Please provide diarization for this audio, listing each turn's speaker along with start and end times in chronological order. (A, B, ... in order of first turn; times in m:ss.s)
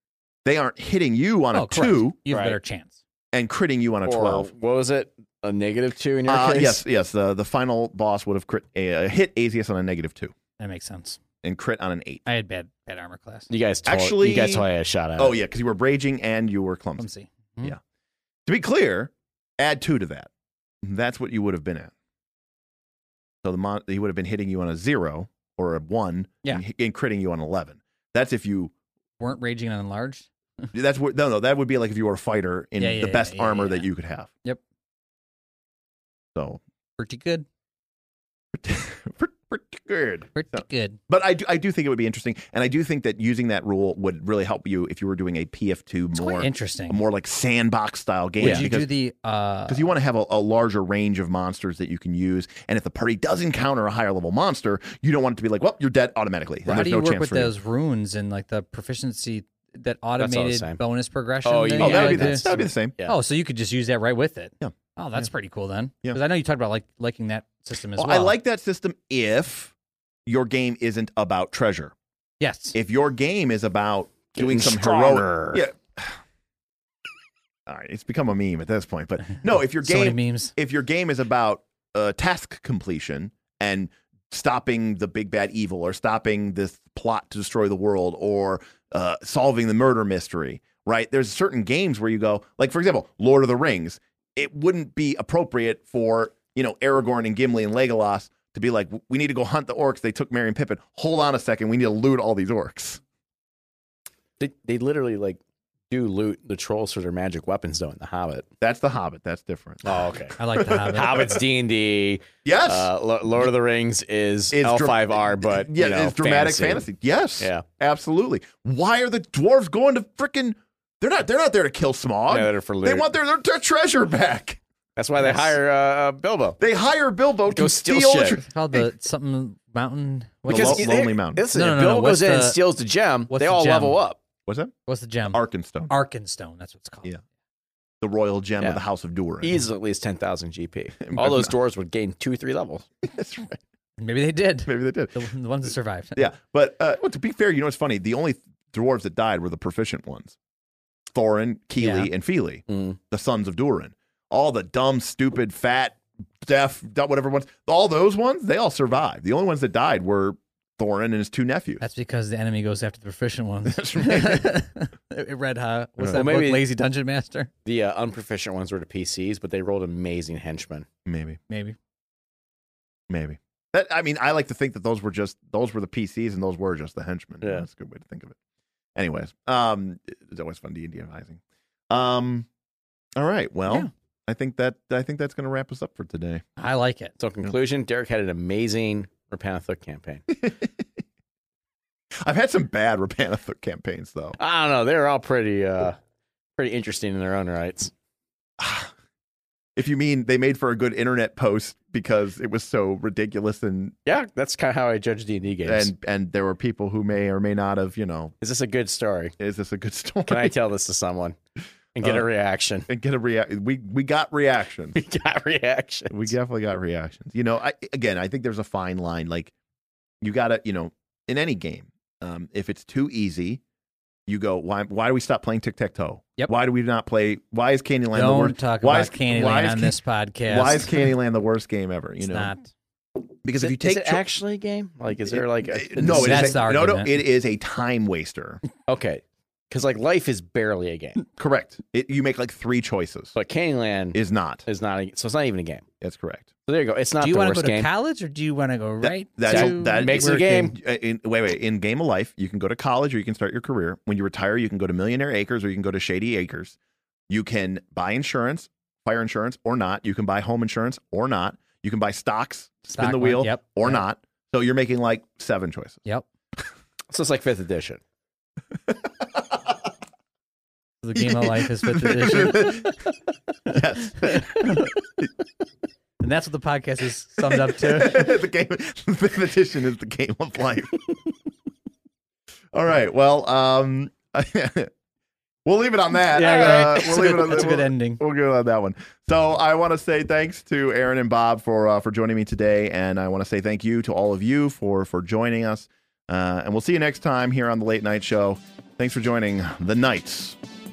0:00.4-0:02.2 A
0:01.5-0:03.0 B
0:02.3-0:02.6 C
0:03.3-0:04.5 A
0:04.0-0:06.8 C
0:06.3-0:10.3 A
0:10.6-0:11.2 B
0:11.4-0:12.2 A
0:12.3-0:13.5 B
0:13.5-0:15.4 C
0:13.8-0:14.6 A
0:15.2-0:17.0 A
0:17.0-0:17.7 B
0:18.4-0:20.3 A
0:20.8-0:21.9 A
0:23.4-0:28.7 A
0:29.2-0:30.7 B
0:30.7-0:34.3 A
0:32.8-0:33.9 B
0:36.4-0:36.6 A
0:37.0-0:37.4 B
0:38.5-0:48.9 A
0:40.4-0:41.0 B
0:46.1-0:47.0 B
0:48.4-0:49.9 B
0:49.7-0:57.5 A
0:56.6-1:02.5 B
1:00.2-1:00.8 C
1:01.4-1:03.2 C
1:01.8-1:02.9 A
1:03.1-1:08.4 B
1:08.0-1:09.7 A
1:10.3-1:11.9 A
1:12.4-1:12.8 B
1:12.7-1:16.2 A
1:14.4-1:15.6 C
1:17.7-1:43.0 A
1:19.8-1:20.5 B
1:44.4-1:48.5 C
1:48.6-1:51.4 A
1:49.8-1:56.8 C
1:50.4-1:51.4 B
1:52.4-1:52.9 A
1:54.5-2:04.6 A
1:57.4-1:57.6 C
2:02.3-2:03.1 C
2:05.0-2:06.6 C
2:05.2-2:05.6 B
2:06.6-2:08.8 A
2:07.5-2:08.4 C
2:08.5-2:10.9 B
2:10.5-2:11.4 A
2:10.5-2:14.2 C
2:11.5-2:12.6 B
2:13.3-2:14.0 B
2:14.4-2:14.7 A
2:14.8-2:17.1 B
2:15.3-2:15.9 A
2:18.0-2:19.6 A
2:19.4-2:22.9 C
2:21.1-2:21.5 A
2:23.0-2:23.6 A
2:24.0-2:26.2 B
2:24.7-2:25.2 A
2:26.2-2:30.4 A
2:31.1-2:41.8 A
2:31.8-2:32.1 B
2:32.7-2:33.0 C
2:41.8-2:47.5 B
2:43.6-2:44.5 A
2:46.1-2:46.7 C
2:47.6-2:50.9 C
2:51.1-2:51.4 A
2:51.5-2:51.8 B
2:53.1-2:58.4 A
2:59.0-3:02.5 A
3:03.2-3:06.4 A
3:06.6-3:07.2 B
3:07.2-3:10.3 C
3:10.3-3:10.8 A
3:12.2-3:14.4 A
3:14.4-3:16.0 C
3:16.6-3:17.9 C
3:18.6-3:18.9 A
3:19.8-3:23.9 A
3:24.1-3:25.9 C
3:25.6-3:28.3 A
3:28.4-3:29.3 C
3:29.4-3:30.5 A
3:30.3-3:31.4 C
3:31.9-3:32.9 C
3:32.9-3:35.0 A
3:34.9-3:36.3 C
3:36.1-3:39.5 A
3:40.2-3:43.6 A
3:44.3-3:52.5 A
3:48.1-3:51.1 B
3:52.3-3:52.7 B
3:53.4-3:54.2 A
3:53.6-3:56.6 C
3:55.3-3:58.6 A
3:56.0-3:57.1 B
3:58.9-4:01.2 C
4:01.2-4:03.3 A
4:03.3-4:05.8 C
4:04.1-4:04.6 A
4:06.0-4:06.5 A
4:06.7-4:07.9 C
4:07.2-4:10.7 B
4:09.0-4:16.8 A
4:09.4-4:10.8 C
4:17.3-4:26.0 A
4:22.9-4:24.0 B
4:27.1-4:28.0 C
4:28.8-4:29.7 A
4:31.0-4:33.1 B
4:31.1-4:33.0 A
4:33.7-4:35.3 A
4:33.7-4:35.0 B
4:36.2-4:38.4 B
4:37.5-4:41.2 A
4:42.7-4:44.9 A
4:45.6-5:00.6 A
4:46.3-4:48.2 B